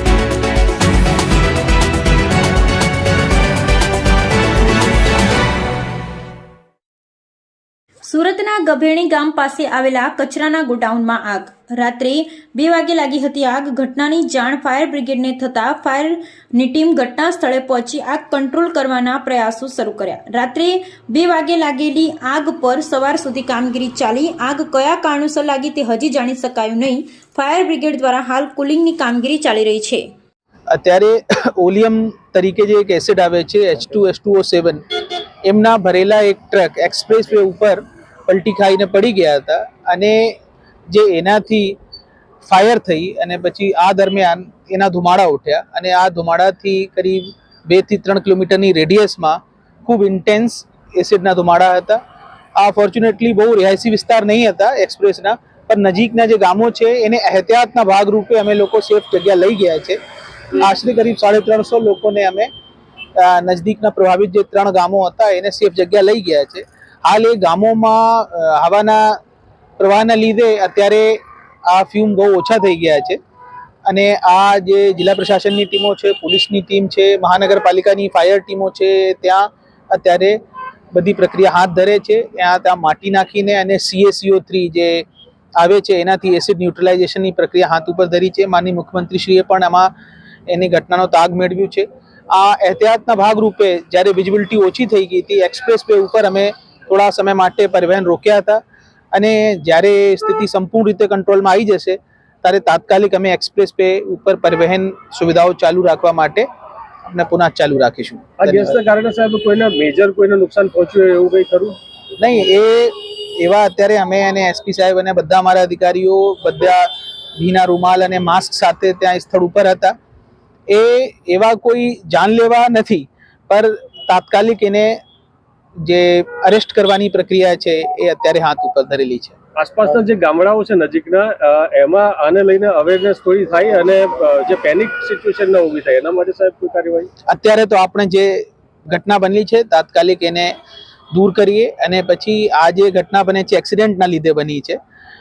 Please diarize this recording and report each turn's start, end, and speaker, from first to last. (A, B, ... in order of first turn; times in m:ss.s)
0:08.1-0:30.0 A
0:30.7-0:40.4 B
0:40.9-0:41.8 B
0:42.4-0:52.0 B
0:52.6-1:00.0 B
1:00.5-1:02.5 B
1:03.2-1:09.2 B
1:09.8-1:13.2 B
1:13.9-1:20.4 B
1:20.9-1:25.1 B
1:25.6-1:29.9 B
1:30.5-1:38.6 B
1:39.1-1:46.5 B
1:47.1-1:48.8 B
1:48.4-1:51.8 C
1:52.2-1:59.9 B
2:00.7-2:05.0 B
2:05.8-2:09.4 B
2:09.6-2:17.1 C
2:17.3-2:20.6 B
2:21.1-2:24.8 B